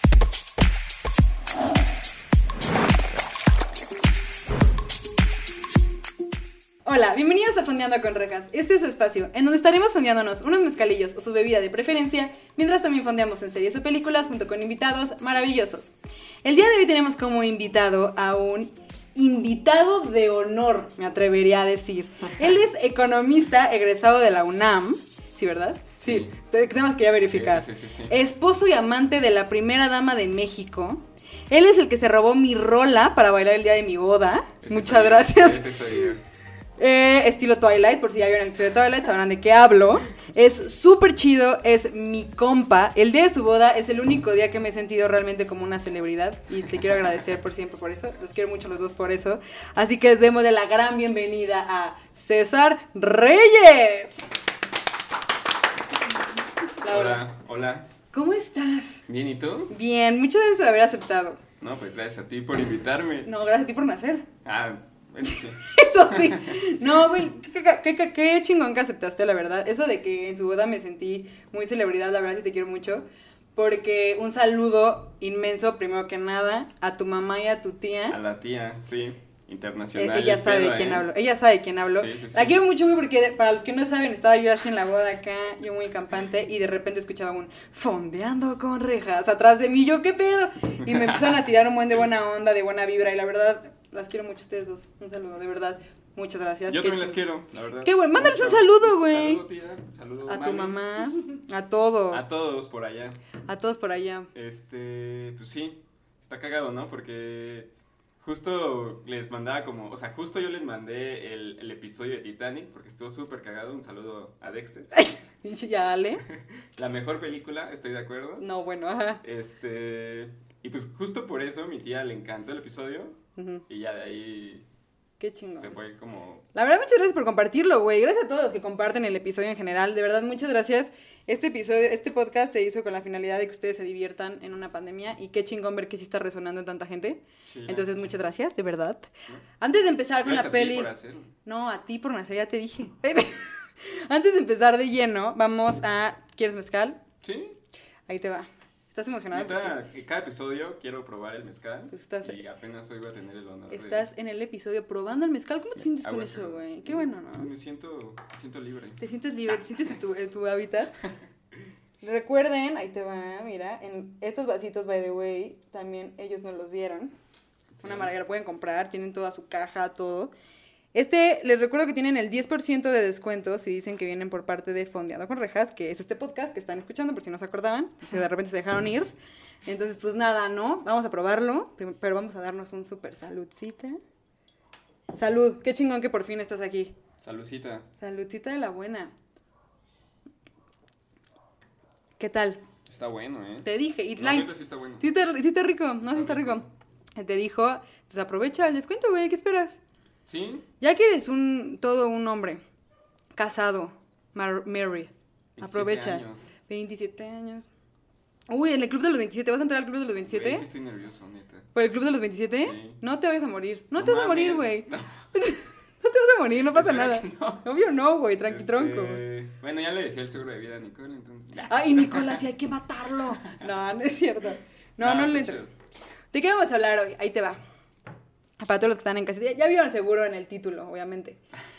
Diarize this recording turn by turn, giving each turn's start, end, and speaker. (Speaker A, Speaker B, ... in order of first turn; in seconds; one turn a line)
Speaker A: 6.8-15.9
Speaker A: 16.4-35.7
Speaker B: 26.0-26.3
Speaker B: 27.2-28.2
Speaker B: 34.6-36.2
Speaker A: 36.8-54.2
Speaker A: 56.8-57.3
Speaker B: 56.8-57.9
Speaker A: 58.1-59.0
Speaker B: 59.1-59.7
Speaker A: 59.7-61.4
Speaker B: 61.6-63.3
Speaker A: 63.2-64.3
Speaker B: 64.4-67.2
Speaker A: 65.3-78.2
Speaker B: 78.1-81.1
Speaker A: 79.9-97.2
Speaker B: 81.9-82.6
Speaker B: 90.8-91.4
Speaker B: 96.7-100.8
Speaker A: 97.8-99.4
Speaker A: 100.3-102.2
Speaker B: 102.1-103.2
Speaker A: 103.5-104.3
Speaker B: 104.3-115.1
Speaker A: 115.0-116.2
Speaker B: 116.3-118.5
Speaker A: 118.4-119.2
Speaker B: 119.2-123.2
Speaker A: 123.3-123.6
Speaker B: 123.7-124.6
Speaker A: 125.2-125.8
Speaker B: 125.6-126.4
Speaker A: 126.5-140.9
Speaker B: 137.5-138.1
Speaker B: 140.2-141.3
Speaker A: 141.4-147.0
Speaker B: 147.2-147.6
Speaker A: 148.1-149.8
Speaker B: 149.3-154.1
Speaker A: 151.9-152.4
Speaker A: 153.7-157.5
Speaker B: 155.8-159.7
Speaker A: 159.0-160.9
Speaker A: 162.0-167.1
Speaker B: 167.8-168.1
Speaker A: 167.8-170.3
Speaker A: 170.9-179.1
Speaker A: 179.7-184.0
Speaker A: 185.1-186.9
Speaker B: 187.2-187.9
Speaker A: 188.0-189.1
Speaker A: 192.2-192.6
Speaker B: 192.8-195.1
Speaker A: 193.6-199.8
Speaker B: 196.1-196.6
Speaker B: 200.2-200.7
Speaker A: 200.8-202.6
Speaker A: 203.3-207.7
Speaker B: 205.6-206.5
Speaker A: 208.5-210.7
Speaker B: 210.2-211.7
Speaker A: 211.7-219.2
Speaker B: 212.6-213.0
Speaker B: 213.9-215.3
Speaker B: 216.7-217.7
Speaker B: 218.5-222.4
Speaker A: 221.6-225.7
Speaker B: 225.0-225.7
Speaker A: 226.3-227.6
Speaker A: 228.6-231.4